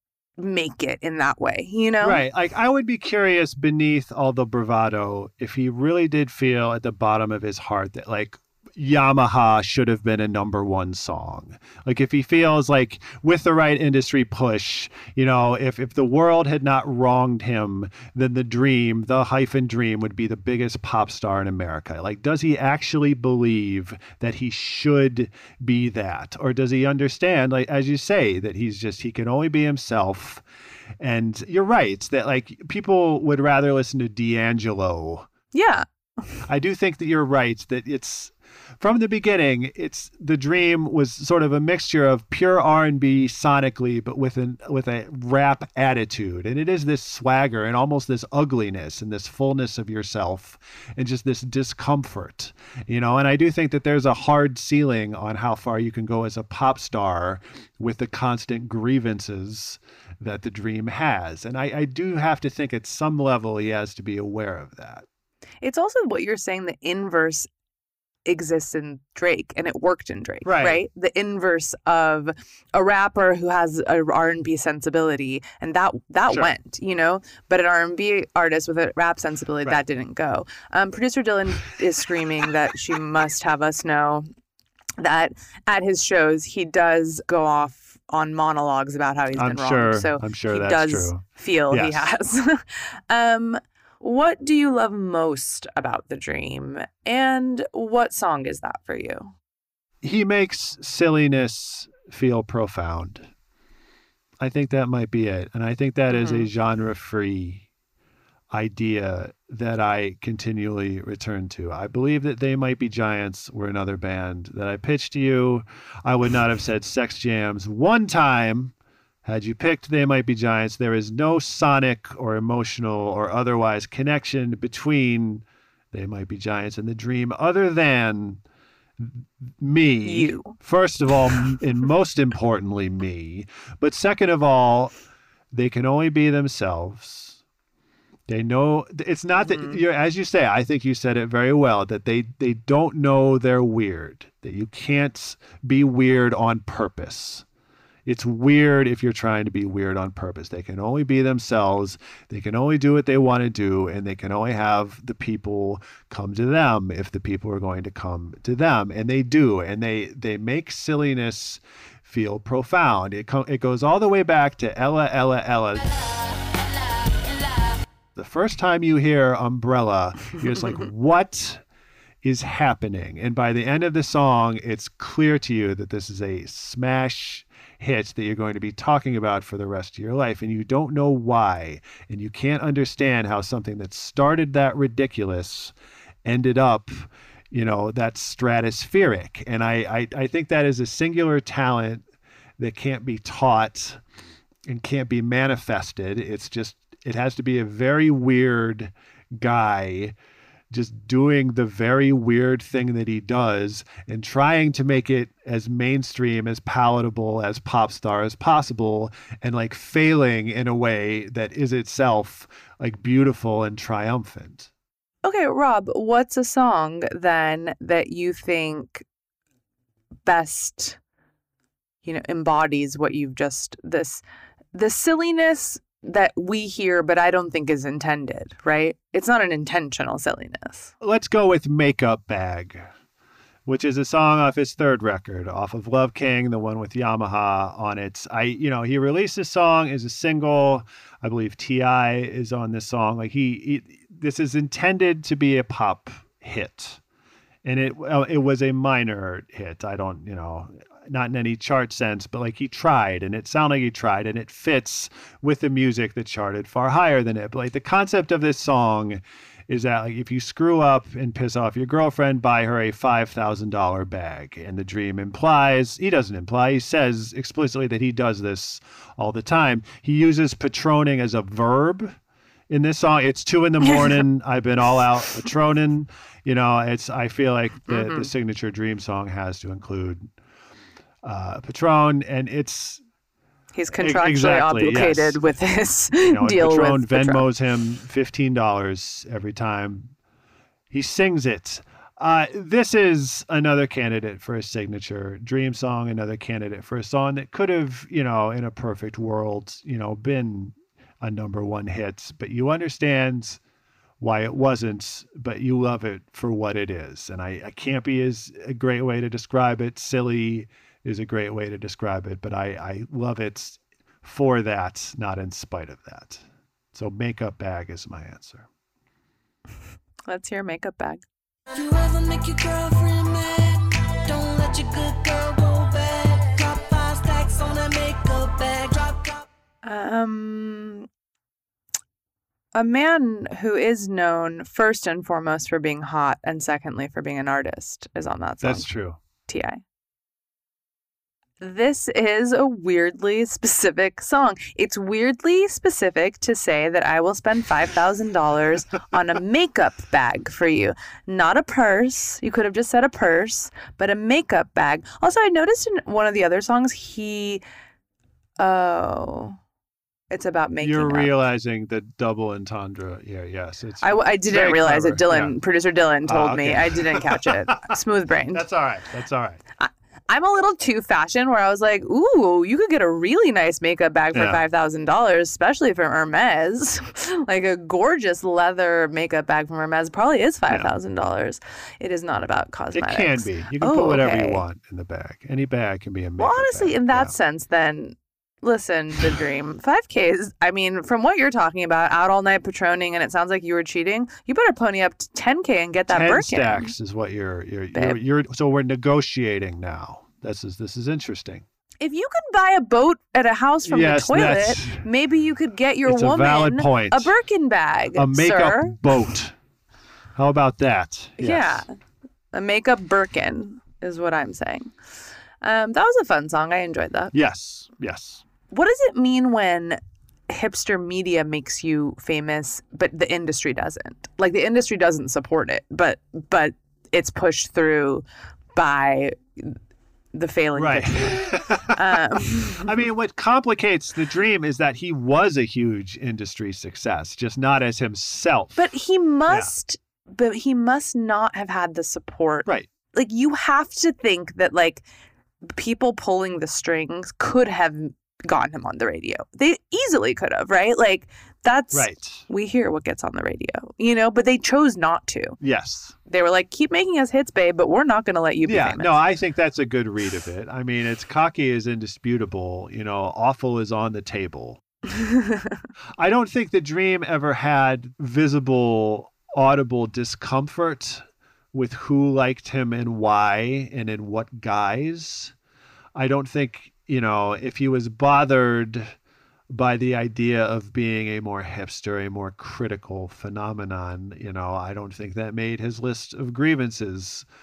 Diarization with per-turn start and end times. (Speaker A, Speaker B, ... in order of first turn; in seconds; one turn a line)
Speaker A: 0.4-2.2
Speaker B: 2.0-30.4
Speaker B: 31.0-35.3
Speaker A: 35.5-36.4
Speaker B: 36.5-65.0
Speaker A: 65.6-67.5
Speaker A: 68.2-84.3
Speaker B: 70.4-70.8
Speaker A: 85.0-99.3
Speaker B: 89.3-92.1
Speaker B: 100.0-103.3
Speaker B: 104.4-107.6
Speaker A: 106.1-106.5
Speaker B: 108.5-118.7
Speaker B: 119.2-128.4
Speaker B: 129.0-134.9
Speaker A: 130.0-130.5
Speaker B: 135.5-137.4
Speaker B: 138.3-147.4
Speaker A: 139.4-139.8
Speaker B: 148.1-165.9
Speaker B: 168.1-171.6
Speaker A: 170.4-170.8
Speaker B: 172.2-192.0
Speaker B: 192.6-194.0
Speaker B: 194.7-200.2
Speaker B: 200.7-214.7
Speaker A: 215.2-219.0
Speaker A: 220.2-221.0
Speaker A: 222.0-230.9
Speaker B: 231.0-232.9
Speaker B: 233.7-247.0
Speaker B: 247.6-272.2
Speaker B: 272.7-280.3
Speaker A: 273.8-274.2
Speaker A: 277.9-278.3
Speaker B: 281.2-283.0
Speaker A: 283.7-287.5
Speaker B: 284.0-285.4
Speaker B: 286.2-290.1
Speaker B: 290.9-303.6
Speaker B: 304.2-318.7
Speaker A: 320.3-321.2
Speaker C: 321.7-329.4
Speaker A: 329.8-331.1
Speaker A: 332.7-338.9
Speaker B: 338.6-339.2
Speaker A: 339.5-339.8
Speaker A: 341.6-357.6
Speaker A: 358.6-359.6
Speaker A: 360.3-361.4
Speaker B: 360.8-365.5
Speaker A: 364.0-368.6
Speaker B: 366.2-367.9
Speaker B: 368.5-369.6
Speaker A: 369.8-384.6
Speaker B: 374.3-374.6
Speaker B: 382.9-387.3
Speaker A: 386.4-396.9
Speaker B: 396.1-401.6
Speaker A: 402.0-409.0
Speaker B: 403.9-405.0
Speaker B: 406.1-407.3
Speaker B: 408.1-409.5
Speaker B: 410.3-411.8
Speaker A: 411.4-411.9
Speaker A: 412.5-414.9
Speaker A: 415.6-417.3
Speaker B: 417.3-418.4
Speaker A: 418.7-428.2
Speaker A: 428.8-429.8
Speaker A: 430.3-432.9
Speaker B: 430.8-432.2
Speaker B: 432.8-438.8
Speaker A: 438.8-445.0
Speaker A: 445.6-455.6
Speaker B: 451.9-452.4
Speaker B: 455.6-456.1
Speaker A: 456.3-459.2
Speaker B: 458.6-464.8
Speaker A: 465.1-465.8
Speaker B: 466.2-475.5
Speaker B: 476.1-479.1
Speaker B: 479.7-487.5